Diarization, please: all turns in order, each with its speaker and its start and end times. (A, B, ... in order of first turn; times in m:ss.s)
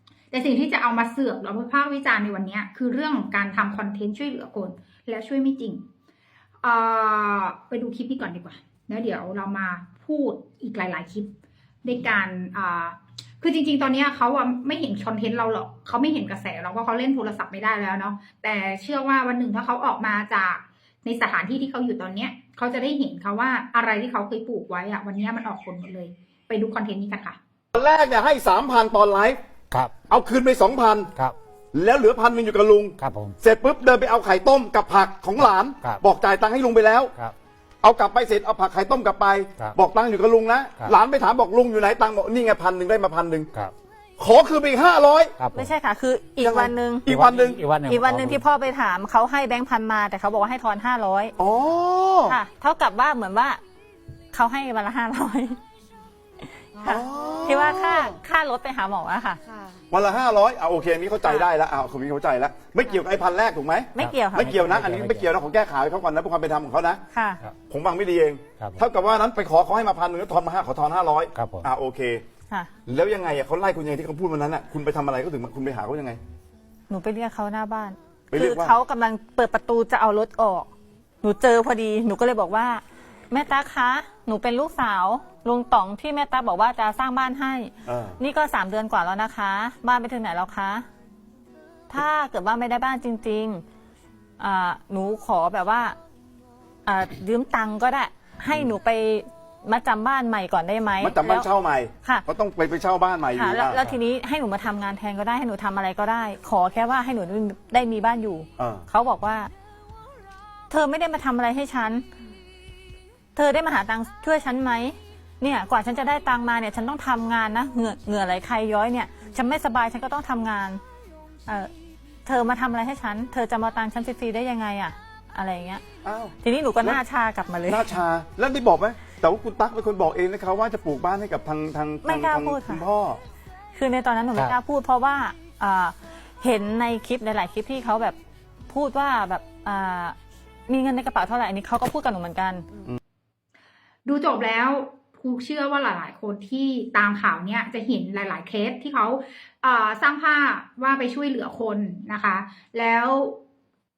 0:00.3-0:05.8 A
0:06.6-0:11.3 A
0:11.8-0:27.4 A
0:27.7-0:29.4 B
0:29.7-0:30.0 C
0:30.1-0:31.1 B
0:31.7-0:37.1 B
0:33.0-0:33.4 C
0:37.8-0:43.5 B
0:44.2-0:45.4 B
0:45.4-0:45.7 C
0:45.5-0:47.1 D
0:46.4-0:47.6 B
0:47.1-0:48.4 C
0:47.8-0:51.4 D
0:51.4-0:52.4 B
0:52.3-0:53.6 D
0:54.3-0:55.6 D
0:56.7-0:59.4 D
0:56.8-0:58.1 B
0:59.9-1:07.0 B
1:04.0-1:04.8 D
1:04.0-1:05.3 C
1:07.1-1:07.4 D
1:07.7-1:12.2 B
1:11.4-1:11.7 C
1:12.9-1:16.2 B
1:16.9-1:20.7 D
1:18.3-1:18.8 B
1:21.2-1:30.9 D
1:27.9-1:28.2 B
1:31.9-1:33.6 D
1:34.4-1:36.0 D
1:36.9-1:41.5 D
1:41.0-1:43.9 B
1:43.4-1:49.5 D
1:48.6-1:48.9 B
1:50.7-1:52.0 D
1:53.4-2:00.8 D
2:02.2-2:05.8 D
2:06.0-2:07.0 B
2:06.4-2:07.9 D
2:07.7-2:13.2 B
2:12.0-2:12.8 D
2:13.7-2:18.2 D
2:18.7-2:20.2 D
2:20.7-2:22.7 D
2:24.1-2:33.4 A